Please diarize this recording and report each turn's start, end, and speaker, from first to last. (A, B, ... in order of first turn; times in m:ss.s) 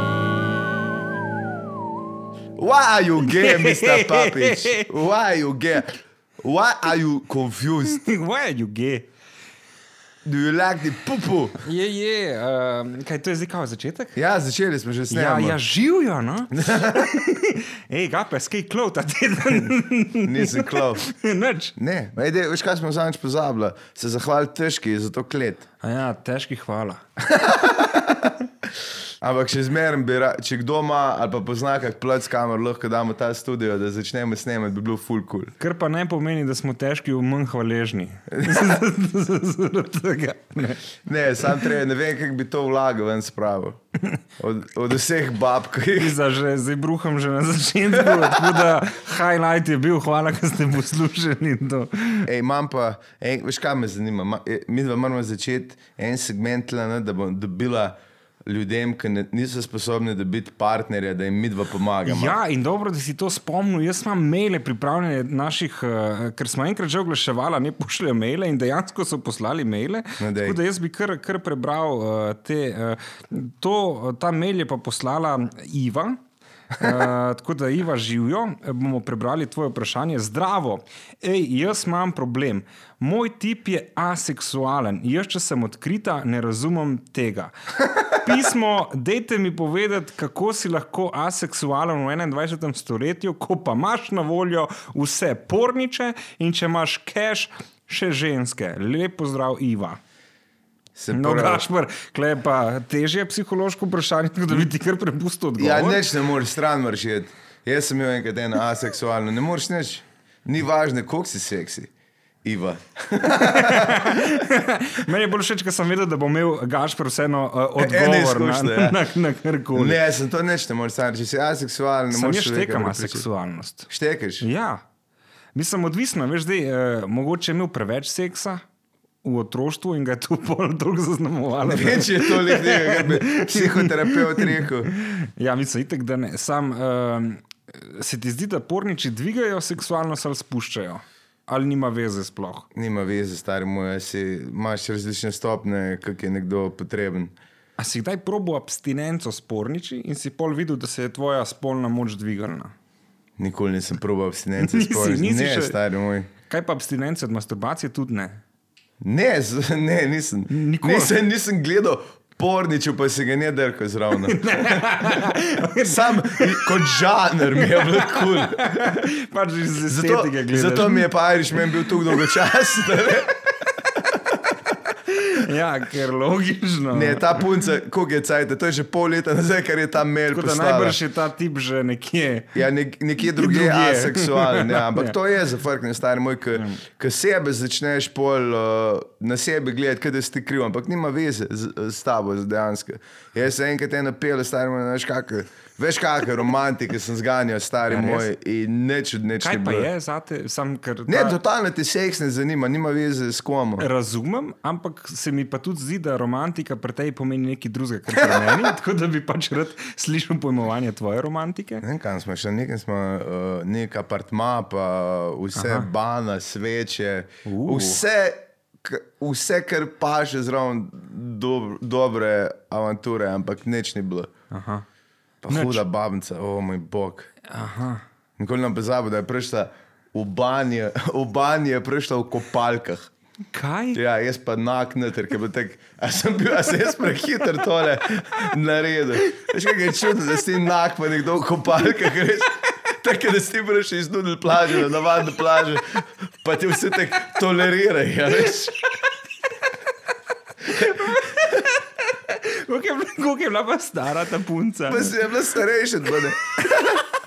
0:02.6-0:08.0 A
0:03.2-0:04.9 B
0:07.9-0:09.1 B
0:10.2-0:11.6 A
0:11.6-0:14.2 B
0:14.1-0:15.6 A
0:15.1-0:21.7 B
0:16.5-0:17.1 A
0:20.2-0:21.0 A
0:21.8-0:25.7 A
0:25.8-0:27.0 B
0:27.3-0:28.3 A
0:29.2-0:35.5 A
0:35.6-0:40.8 B
0:38.3-0:38.8 A
0:41.0-0:43.8 A
0:44.4-0:46.2 A
0:46.0-0:52.3 B
0:48.0-0:48.6 A
0:52.2-1:02.4 A
1:02.0-1:16.2 B
1:10.2-1:10.6 A
1:16.7-1:27.5 B
1:28.1-1:40.0 B
1:40.9-1:41.6 A
1:41.1-1:46.0 B
1:45.6-1:51.9 A
1:52.4-1:54.4 A
1:53.4-2:00.0 B
1:57.8-1:59.0 A
1:59.7-2:03.2 A
2:02.1-2:03.9 B
2:03.9-2:04.4 A
2:04.4-2:04.8 B
2:05.5-2:08.6 B
2:09.2-2:22.7 B
2:11.6-2:14.9 A
2:22.7-2:27.3 A
2:27.8-2:32.7 B
2:33.4-2:36.3 A
2:34.6-2:35.8 B
2:36.4-2:38.4 B
2:39.0-2:44.8 A
2:40.5-2:41.2 B
2:44.3-2:46.8 B
2:45.8-2:48.9 A
2:47.6-2:51.1 B
2:49.9-2:53.3 A
2:55.1-2:57.4 B
2:56.9-3:01.0 A
3:00.3-3:02.6 B
3:02.5-3:19.9 A
3:03.2-3:05.1 B
3:17.9-3:18.2 B
3:19.4-3:21.4 B
3:21.1-3:23.9 A
3:23.8-3:31.8 B
3:28.1-3:28.6 A
3:31.8-3:44.3 A
3:35.5-3:35.9 B
3:37.4-3:38.0 B
3:44.5-3:44.8 B
3:45.4-3:47.3 A
3:45.5-3:45.8 B
3:47.5-3:48.0 B
3:48.4-3:53.1 A
3:53.5-3:54.0 B
3:53.9-4:08.8 A
4:10.6-4:15.2 B
4:10.7-4:11.4 A
4:14.9-4:17.0 A